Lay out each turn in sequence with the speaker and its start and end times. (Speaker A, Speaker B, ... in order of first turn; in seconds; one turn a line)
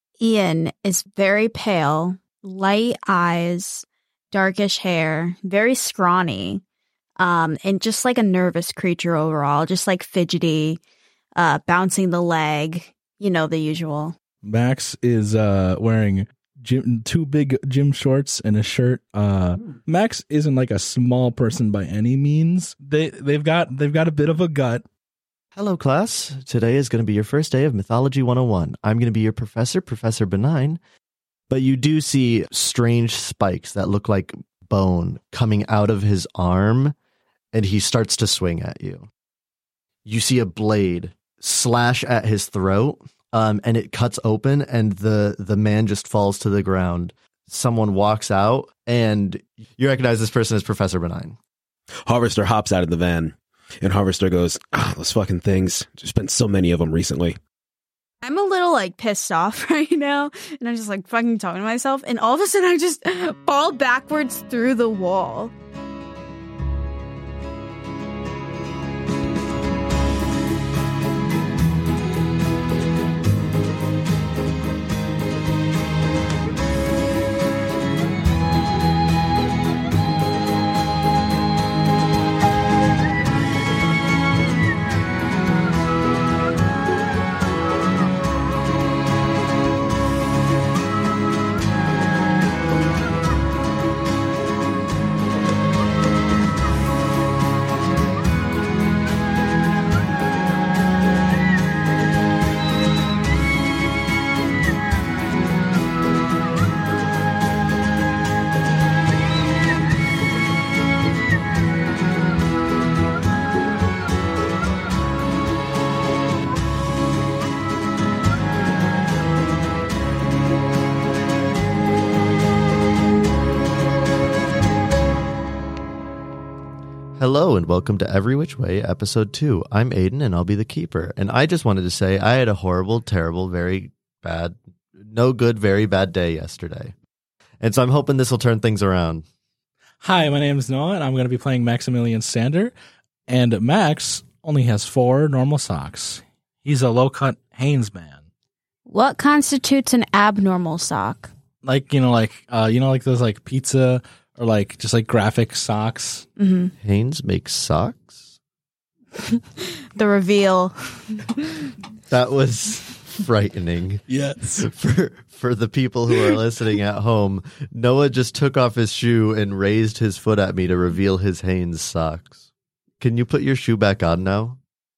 Speaker A: 0.2-6.6
Speaker A: 7.2-10.8
Speaker A: 11.4-14.1
Speaker B: 14.4-24.8
Speaker C: 25.6-30.8
Speaker C: 31.5-36.9
Speaker C: 37.5-39.1
Speaker C: 40.0-51.4
Speaker D: 52.0-57.4
Speaker A: 58.2-65.5
Speaker C: 127.2-136.9
Speaker C: 137.6-139.2
Speaker B: 140.0-142.7
Speaker B: 143.3-148.2
Speaker A: 148.9-151.3
Speaker B: 151.6-156.2
Speaker A: 156.4-156.7
Speaker C: 156.8-158.2
Speaker A: 159.2-161.7
Speaker C: 162.1-164.0
Speaker B: 164.1-164.7
Speaker C: 164.5-172.3
Speaker C: 173.0-174.6